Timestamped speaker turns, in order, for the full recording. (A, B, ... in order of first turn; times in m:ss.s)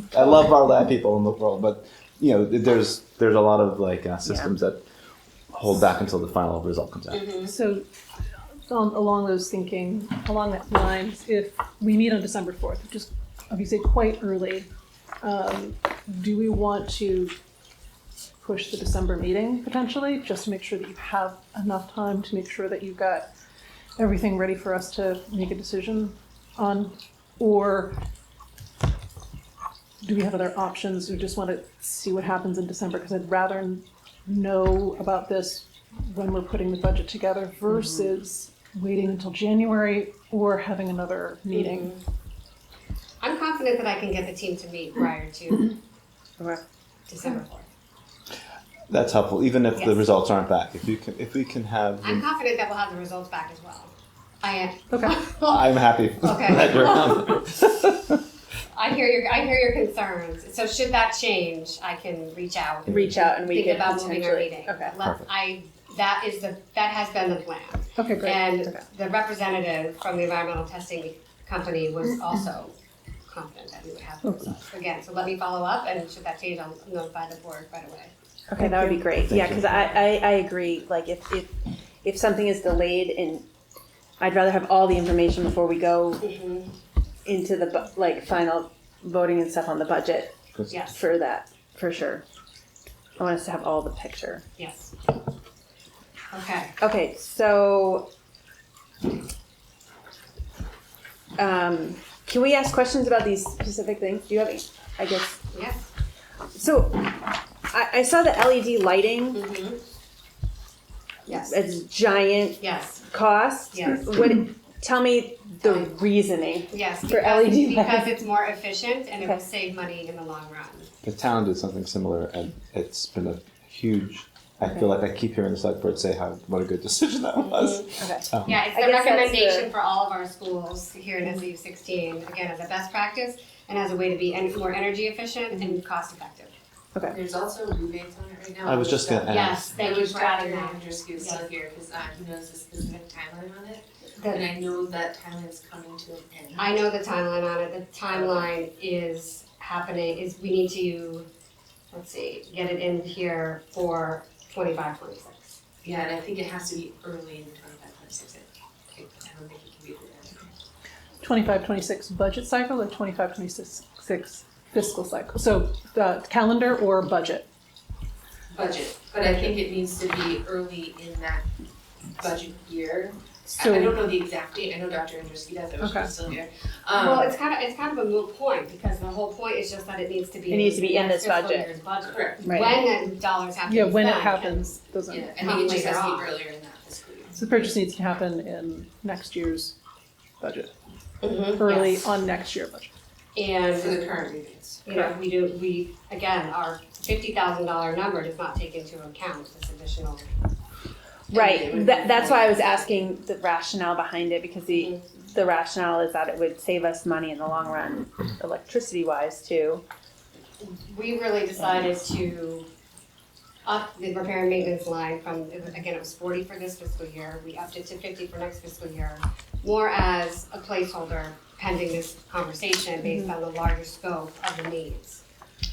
0:00.1-0:04.8 A
0:04.2-0:04.5 B
0:05.5-0:07.3 A
0:07.1-0:07.5 C
0:07.4-0:07.9 D
0:08.7-0:14.7 D
0:15.2-0:17.4 D
0:18.4-0:23.3 D
0:24.0-0:28.0 D
0:30.0-0:42.0 D
0:37.7-0:38.1 B
0:41.5-0:42.0 C
0:43.2-0:45.8 C
0:47.1-0:47.7 C
0:48.9-0:52.3 A
0:52.0-0:53.9 C
0:54.4-0:55.7 C
0:54.9-0:55.2 D
0:55.4-0:58.0 A
0:56.2-0:57.4 C
0:58.7-1:12.7 C
1:02.9-1:05.0 B
1:08.0-1:08.4 D
1:08.3-1:08.8 B
1:13.3-1:18.1 C
1:14.2-1:14.5 D
1:18.5-1:23.4 B
1:18.6-1:19.0 D
1:19.2-1:19.9 A
1:24.2-1:26.2 B
1:26.2-1:26.7 C
1:27.2-1:30.4 B
1:30.7-1:31.0 C
1:30.9-1:32.2 B
1:33.2-1:34.4 B
1:34.6-1:34.9 C
1:36.3-1:36.7 C
1:36.8-1:38.1 B
1:41.4-1:45.4 B
1:45.5-1:45.9 C
1:46.5-1:49.5 B
1:49.3-1:49.8 C
1:51.3-1:51.6 C
1:51.3-1:58.2 B
1:52.6-1:53.0 C
1:53.7-1:54.1 C
1:55.6-1:56.0 C
1:56.7-2:00.9 C
2:01.0-2:08.6 A
2:04.6-2:04.9 B
2:07.4-2:07.9 C
2:08.0-2:09.7 B
2:08.4-2:16.5 C
2:17.1-2:26.8 E
2:18.6-2:19.7 A
2:19.3-2:21.5 C
2:24.2-2:24.5 C
2:26.6-2:31.3 C
2:28.1-2:28.5 E
2:31.9-2:35.6 C
2:35.8-2:40.5 E
2:41.2-2:47.5 D
2:48.5-2:51.5 E
2:49.2-2:49.6 D
2:52.2-2:57.4 E
2:53.5-2:54.1 D
2:55.8-2:56.1 D
2:56.9-3:04.7 C
3:00.5-3:01.7 B
3:02.0-3:02.5 E
3:02.4-3:02.8 B
3:03.7-3:05.7 D
3:05.1-3:07.4 E
3:05.4-3:06.3 C
3:07.3-3:09.8 D
3:10.4-3:10.7 D
3:11.2-3:12.0 C
3:11.5-3:12.9 D
3:13.4-3:14.0 C
3:13.7-3:15.2 E
3:14.8-3:20.3 C
3:21.3-3:29.8 B
3:21.3-3:22.8 E
3:21.6-3:22.8 C
3:24.8-3:25.0 C
3:30.6-3:32.7 C
3:33.6-3:45.2 C
3:43.0-3:43.3 B